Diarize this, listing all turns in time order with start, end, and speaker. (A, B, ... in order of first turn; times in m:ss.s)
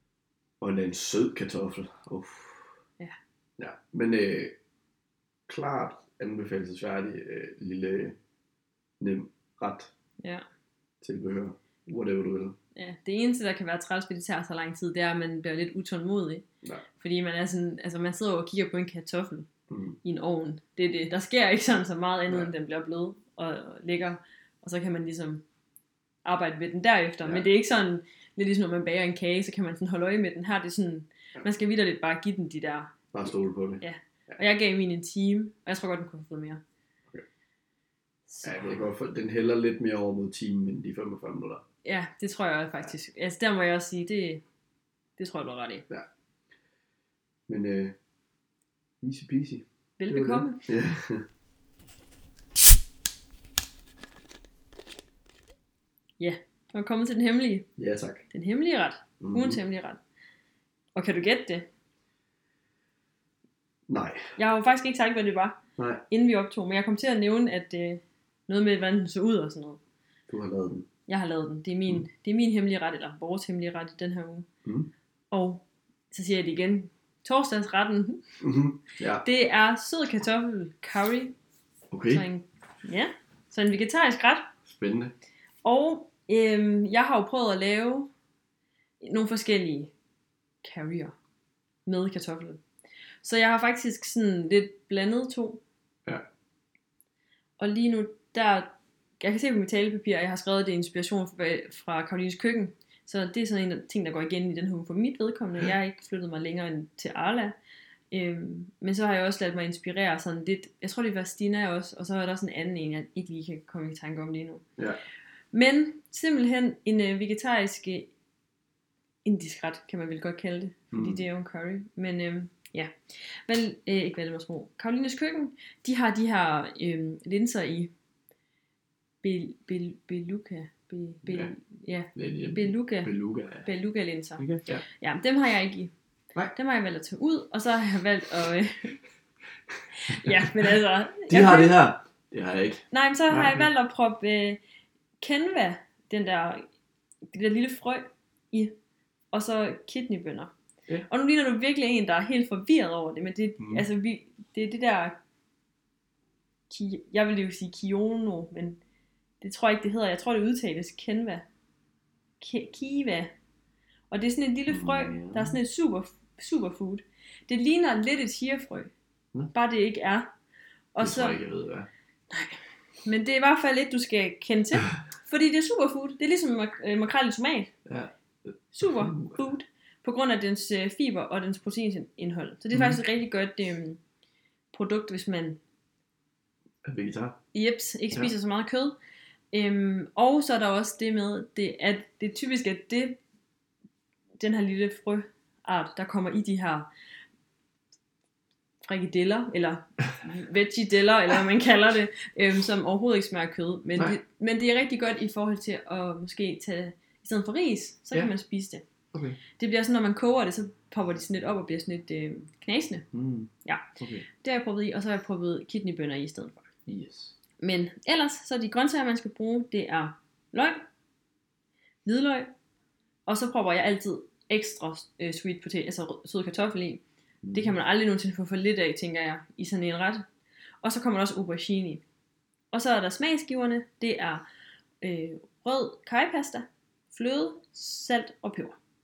0:00.6-0:02.7 A
0:03.6-0:04.6 A
0:05.5-0:08.2 A
0:09.0-0:09.9 A
0:11.0-0:12.6 A
0:12.8-0:16.4 B
0:17.0-0:19.5 B
0:19.7-0:20.0 A
0:20.0-0:25.4 B
0:26.2-0:33.0 B
0:33.1-0:34.4 A
0:33.8-0:36.6 B
0:38.3-0:38.8 B
0:38.4-0:41.6 A
0:41.8-0:44.4 B
0:45.2-0:45.9 B
0:47.5-0:48.0 A
0:49.0-0:51.2 A
0:50.0-0:50.7 B
0:56.2-0:57.7 B
0:57.8-0:58.3 A
0:58.3-1:00.0 B
0:59.2-0:59.6 A
1:01.0-1:01.7 B
1:03.9-1:04.3 A
1:04.4-1:05.6 B
1:05.8-1:06.0 A
1:06.1-1:09.8 B
1:10.3-1:10.9 A
1:11.1-1:14.5 B
1:14.6-1:14.9 A
1:15.3-1:18.2 B
1:18.4-1:19.3 A
1:19.2-1:21.4 B
1:21.9-1:22.3 A
1:22.1-1:24.5 B
1:24.7-1:25.1 A
1:25.6-1:28.1 B
1:29.0-1:29.9 B
1:30.6-1:31.2 B
1:31.9-1:32.6 B
1:33.2-1:35.6 B
1:37.6-1:47.6 B
1:48.1-1:54.6 B
1:55.5-1:58.1 B
1:59.2-2:02.9 B
2:00.9-2:01.2 A
2:03.5-2:07.9 B
2:09.2-2:13.1 B
2:11.3-2:11.5 A
2:12.2-2:13.7 A
2:13.6-2:15.9 B
2:14.4-2:14.8 A
2:16.5-2:19.0 B
2:20.0-2:21.7 B
2:20.1-2:20.5 A
2:21.3-2:23.7 A
2:22.9-2:24.6 B
2:25.2-2:26.6 B
2:27.3-2:28.8 B
2:29.3-2:30.5 B
2:31.1-2:35.2 B
2:33.6-2:33.9 A
2:36.7-2:38.8 B
2:39.4-2:41.5 B
2:42.4-2:43.3 B
2:44.1-2:48.9 B
2:44.7-2:45.6 A
2:49.5-2:50.3 B
2:50.9-2:51.4 B
2:51.0-2:51.9 A
2:52.3-2:57.7 B
2:57.9-2:59.4 A
2:58.7-3:04.0 B
3:02.7-3:03.0 A
3:04.7-3:05.6 B
3:06.8-3:07.4 A
3:07.5-3:09.0 B
3:09.5-3:13.2 B
3:14.4-3:16.9 B
3:18.8-3:28.8 B
3:29.1-3:29.4 A
3:29.6-3:33.1 B
3:33.1-3:34.3 A
3:33.6-3:36.7 B
3:36.9-3:37.4 A
3:37.6-3:40.8 B
3:42.0-3:42.5 B
3:43.3-3:50.3 B
3:47.4-3:47.8 A
3:50.8-3:52.0 B
3:52.7-3:54.4 B
3:55.0-3:58.8 B